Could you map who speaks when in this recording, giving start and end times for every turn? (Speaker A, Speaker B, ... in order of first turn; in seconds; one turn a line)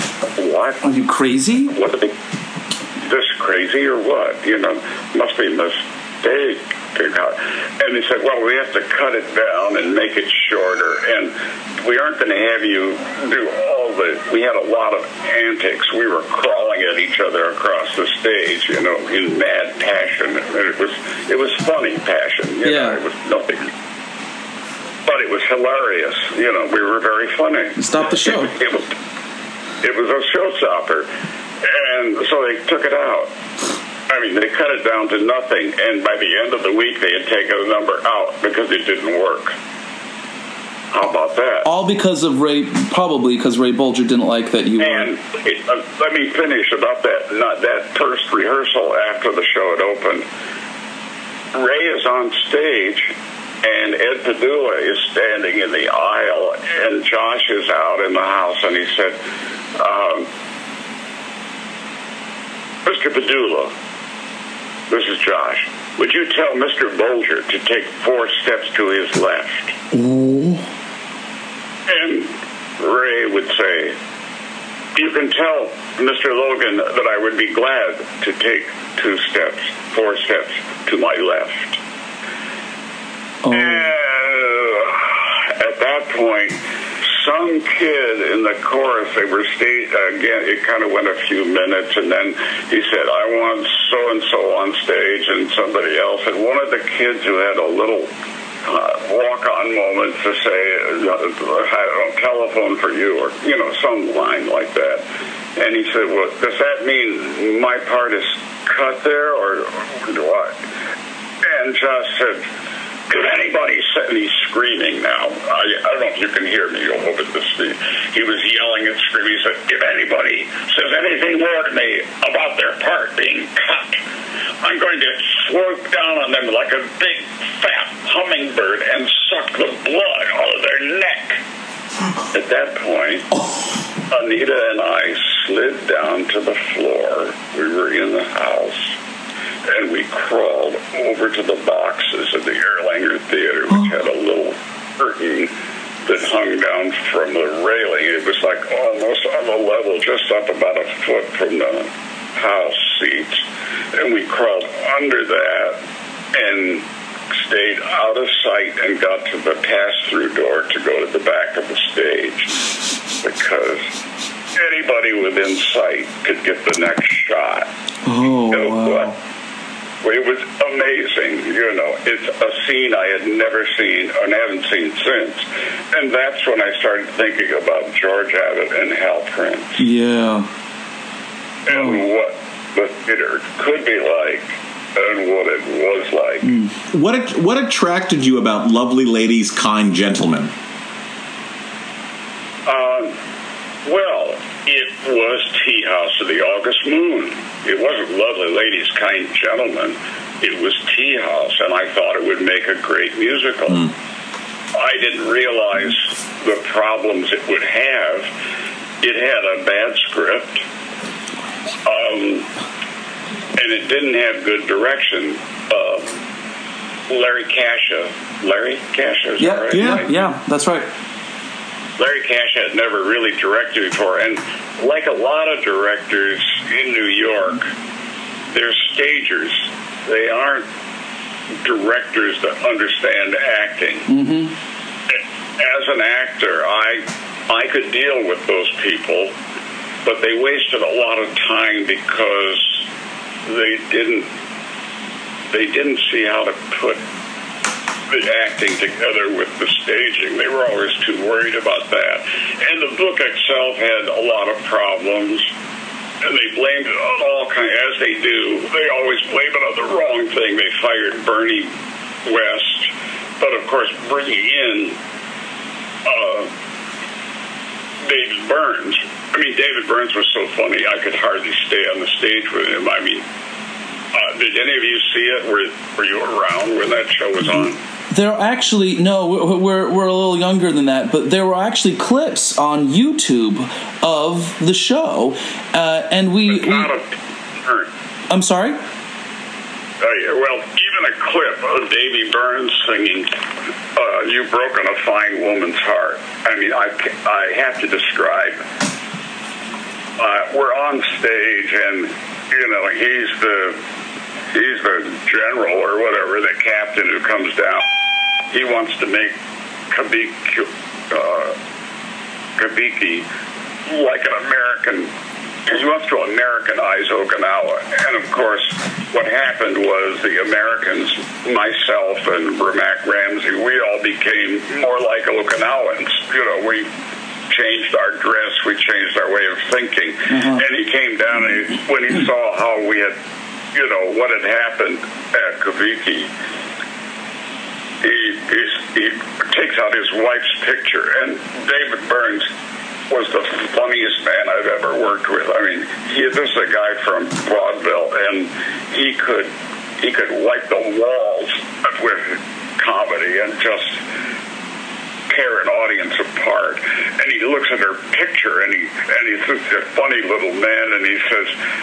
Speaker A: 0.3-0.8
Speaker B: 0.8-1.7
Speaker A: 1.7-2.1
Speaker A: 3.0-23.7
Speaker B: 22.6-23.0
Speaker A: 25.1-28.9
Speaker B: 27.8-28.6
Speaker A: 29.8-31.1
Speaker A: 31.6-33.3
Speaker A: 34.1-39.5
Speaker A: 40.9-41.7
Speaker B: 41.6-45.1
Speaker A: 44.8-50.2
Speaker A: 51.5-59.2
Speaker A: 59.8-60.3
Speaker A: 62.8-63.7
Speaker A: 64.9-69.7
Speaker B: 69.9-70.7
Speaker A: 71.9-74.0
Speaker A: 74.9-81.8
Speaker B: 83.4-83.9
Speaker A: 83.5-98.1
Speaker A: 98.6-105.0
Speaker A: 105.6-110.6
Speaker A: 111.4-112.5
Speaker A: 113.1-124.0
Speaker A: 124.6-131.4
Speaker A: 132.3-133.3
Speaker B: 133.3-133.7
Speaker A: 134.1-138.9
Speaker A: 139.7-145.5
Speaker A: 146.0-155.8
Speaker A: 156.3-162.5
Speaker A: 163.2-163.9
Speaker A: 164.6-167.7
Speaker B: 168.0-169.2
Speaker A: 168.5-169.1
Speaker A: 170.0-179.8
Speaker B: 179.8-180.5
Speaker A: 181.7-186.5
Speaker B: 181.7-182.0
Speaker B: 186.4-186.7
Speaker C: 186.9-190.5
Speaker A: 192.7-193.1
Speaker A: 193.8-203.9
Speaker A: 204.7-208.3
Speaker A: 209.0-210.6
Speaker A: 211.8-212.5
Speaker A: 213.6-216.1
Speaker A: 217.1-220.2
Speaker B: 219.4-220.9
Speaker A: 222.0-227.7
Speaker A: 228.5-230.7
Speaker A: 231.6-234.1
Speaker B: 234.1-234.5
Speaker A: 235.1-239.3
Speaker A: 240.0-242.8
Speaker A: 243.4-244.3
Speaker A: 245.5-247.0
Speaker A: 248.1-255.5
Speaker A: 256.2-261.7
Speaker A: 262.2-265.0
Speaker A: 266.0-266.5
Speaker A: 268.0-273.2
Speaker A: 274.1-277.8
Speaker B: 278.1-286.9
Speaker A: 286.5-287.9
Speaker B: 288.3-288.8
Speaker A: 290.0-293.3
Speaker A: 293.9-298.6
Speaker A: 300.2-303.8
Speaker A: 304.5-307.9
Speaker A: 308.5-309.3
Speaker A: 309.9-311.6
Speaker A: 312.6-313.2
Speaker A: 313.9-315.1
Speaker A: 315.7-326.9
Speaker A: 327.5-333.1
Speaker B: 330.3-330.6
Speaker A: 333.7-336.3
Speaker A: 338.0-342.5
Speaker A: 343.1-354.0
Speaker A: 355.3-361.5